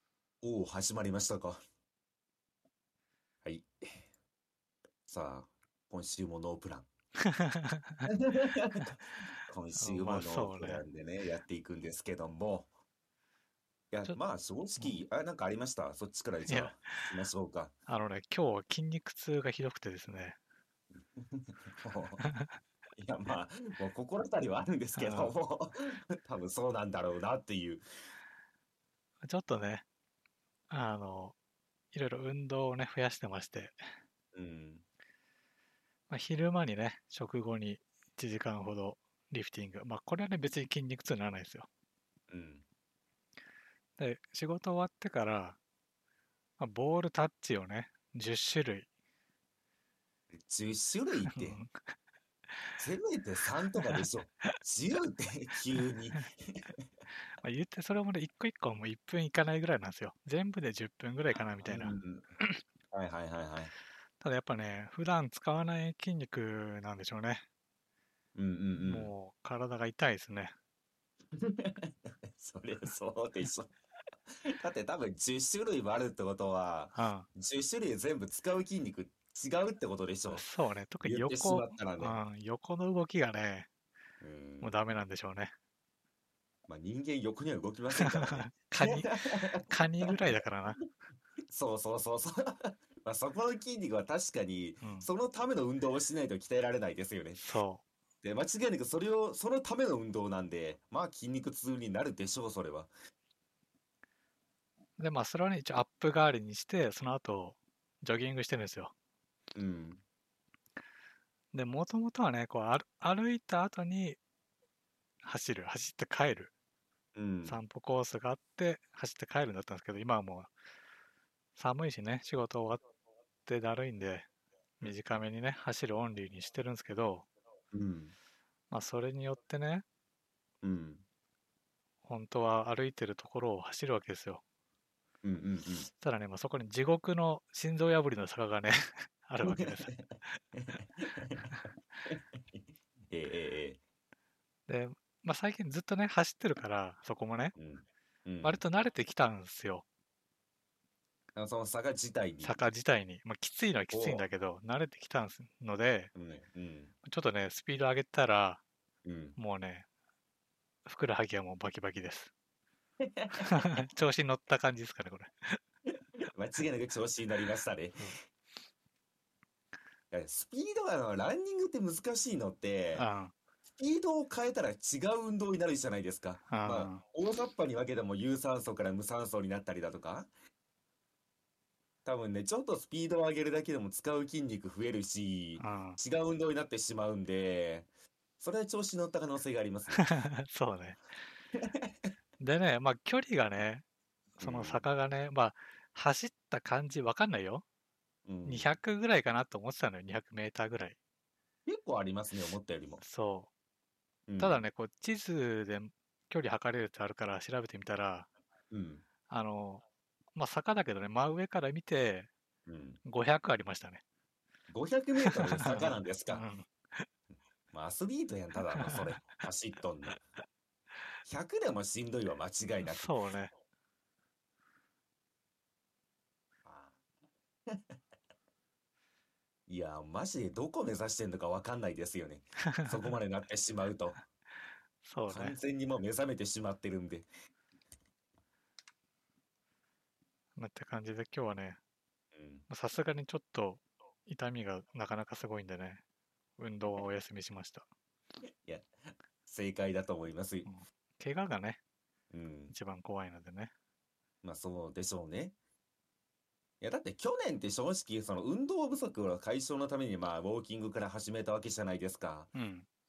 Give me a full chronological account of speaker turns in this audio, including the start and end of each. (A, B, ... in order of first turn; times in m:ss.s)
0:00.4-0:01.6 A
0:03.4-0:04.0 A
0:05.1-0:06.9 A
0:07.2-0:08.1 B
0:08.1-0:12.7 A
0:09.8-0:10.8 B
0:13.9-0:17.7 A
0:16.4-0:17.1 B
0:17.9-0:20.4 B
0:21.2-0:22.2 A
0:22.2-0:22.6 B
0:23.0-0:27.8 A
0:25.0-0:25.3 B
0:29.2-0:29.8 B
0:30.7-0:31.3 B
0:31.9-0:33.9 B
0:34.3-0:34.8 A
0:36.1-0:41.7 B
0:42.3-0:42.6 A
0:44.0-0:45.6 B
0:46.6-0:48.9 B
0:50.3-0:51.6 A
0:51.3-0:51.7 B
0:52.8-0:56.7 A
0:53.8-0:54.6 B
0:55.8-0:56.3 B
0:57.3-1:02.6 B
1:01.6-1:02.2 A
1:02.9-1:03.7 A
1:04.2-1:07.4 B
1:08.3-1:09.1 A
1:08.8-1:10.5 B
1:11.3-1:13.7 A
1:14.3-1:20.4 A
1:17.0-1:17.3 B
1:20.3-1:23.7 B
1:21.0-1:22.2 A
1:24.2-1:24.7 A
1:24.6-1:25.5 B
1:26.7-1:30.2 A
1:28.0-1:30.8 B
1:31.5-1:37.4 A
1:34.8-1:35.1 B
1:37.4-1:37.8 B
1:38.2-1:42.9 A
1:45.0-1:48.9 B
1:49.5-1:50.0 A
1:51.5-1:54.2 B
1:55.2-1:56.5 B
1:57.1-1:57.6 A
1:57.4-2:00.5 B
2:01.6-2:02.8 B
2:03.4-2:04.3 B
2:04.8-2:07.3 B
2:07.7-2:08.1 A
2:08.7-2:09.8 B
2:10.6-2:11.0 A
2:12.0-2:14.4 B
2:15.2-2:15.9 A
2:16.0-2:19.9 B
2:19.4-2:23.8 A
2:24.7-2:27.5 B
2:27.6-2:28.6 A
2:28.4-2:29.8 B
2:31.4-2:32.6 A
2:32.4-2:36.1 B
2:33.9-2:34.3 A
2:36.1-2:36.9 A
2:37.0-2:38.6 B
2:39.0-2:39.4 A
2:39.4-2:39.8 B
2:40.8-2:42.3 B
2:43.0-2:43.7 A
2:43.4-2:45.6 B
2:46.2-2:48.1 A
2:50.1-2:53.1 A
2:52.9-2:53.3 B
2:53.7-3:00.3 A
2:56.5-2:57.0 B
3:02.0-3:07.9 A
3:05.6-3:06.0 B
3:08.4-3:10.1 A
3:10.0-3:11.0 B
3:11.6-3:11.9 A
3:12.4-3:13.8 B
3:14.4-3:14.9 A
3:14.4-3:17.6 B
3:18.2-3:18.7 A
3:18.4-3:21.0 B
3:21.6-3:23.0 A
3:23.0-3:23.5 B
3:24.3-3:24.7 A
3:24.4-3:28.3 B
3:28.7-3:29.0 A
3:29.3-3:29.8 B
3:30.3-3:32.3 B
3:32.6-3:33.0 A
3:33.0-3:34.0 B
3:34.7-3:36.4 A
3:35.2-3:37.1 B
3:37.7-3:40.2 A
3:38.7-3:39.0 B
3:41.2-3:43.1 A
3:42.8-3:43.5 B
3:46.6-3:47.0 A
3:47.7-3:47.9 A
3:49.7-3:54.2 A
3:52.7-3:53.0 B
3:55.0-3:55.6 B
3:55.3-3:57.3 A
4:00.6-4:01.8 B
4:02.3-4:02.6 A
4:02.7-4:06.0 B
4:06.6-4:07.9 B
4:09.4-4:10.7 A
4:10.6-4:11.8 B
4:12.3-4:12.7 A
4:12.7-4:13.7 B
4:14.4-4:15.5 A
4:16.8-4:22.5 A
4:22.5-4:22.8 B